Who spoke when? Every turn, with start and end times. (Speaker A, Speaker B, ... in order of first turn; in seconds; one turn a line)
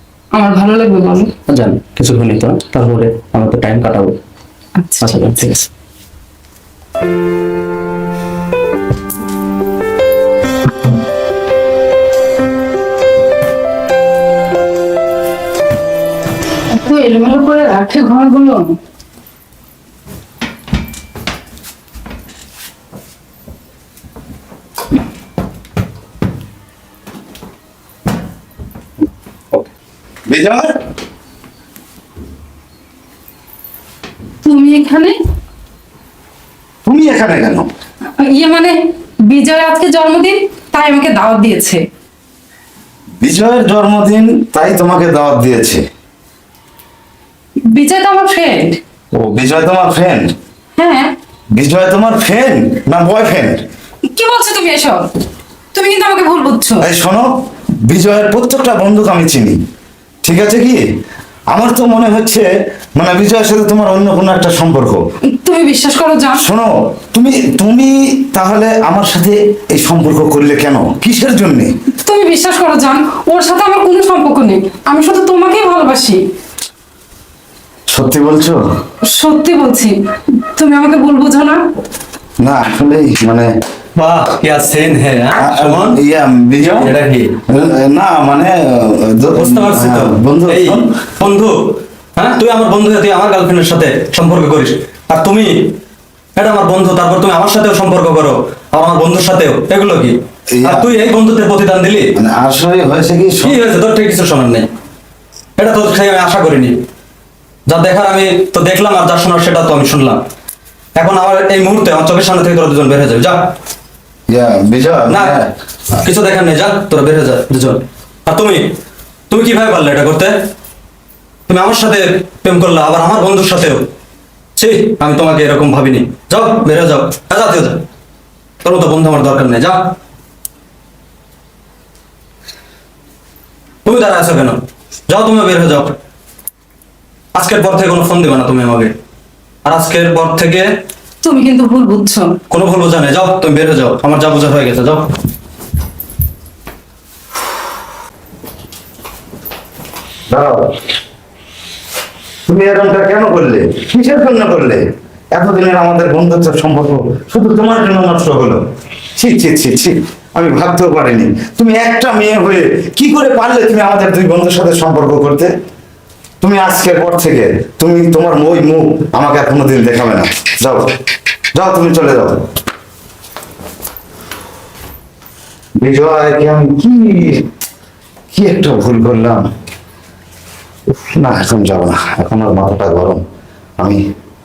Speaker A: 0.3-1.3
Speaker B: 1.5-4.2
Speaker A: 4.8-5.3
Speaker B: 5.0-5.7
Speaker A: 16.7-18.8
Speaker C: 30.3-30.7
Speaker A: 34.4-35.2
Speaker C: 36.9-37.7
Speaker A: 38.2-41.8
Speaker C: 43.2-45.8
Speaker A: 47.7-48.8
Speaker C: 49.1-50.3
Speaker A: 50.8-51.1
Speaker C: 51.5-53.6
Speaker A: 54.1-55.1
Speaker A: 55.7-56.9
Speaker C: 56.8-57.3
Speaker C: 57.9-59.6
Speaker C: 60.2-60.8
Speaker C: 61.5-65.0
Speaker A: 65.3-66.5
Speaker C: 66.4-71.7
Speaker A: 72.0-76.2
Speaker C: 77.9-78.6
Speaker A: 79.1-81.6
Speaker C: 82.4-83.5
Speaker B: 84.0-86.0
Speaker C: 85.3-86.9
Speaker B: 86.6-87.4
Speaker C: 87.5-90.9
Speaker B: 89.3-95.8
Speaker B: 96.4-102.1
Speaker C: 100.6-100.9
Speaker C: 102.2-103.6
Speaker B: 103.4-104.7
Speaker B: 105.6-106.8
Speaker B: 107.7-110.2
Speaker B: 111.0-113.4
Speaker C: 114.3-115.5
Speaker B: 115.1-115.4
Speaker B: 116.0-118.7
Speaker B: 119.3-120.3
Speaker B: 121.5-123.9
Speaker B: 124.6-127.8
Speaker B: 128.6-129.9
Speaker B: 133.8-135.9
Speaker B: 137.3-138.9
Speaker B: 139.7-140.7
Speaker A: 141.2-142.4
Speaker B: 142.5-145.1
Speaker C: 150.3-150.7
Speaker C: 152.5-154.8
Speaker C: 155.3-158.6
Speaker C: 159.2-165.5
Speaker C: 166.4-170.9
Speaker C: 171.5-172.4
Speaker C: 175.8-177.5
Speaker C: 178.3-179.5
Speaker C: 180.9-183.2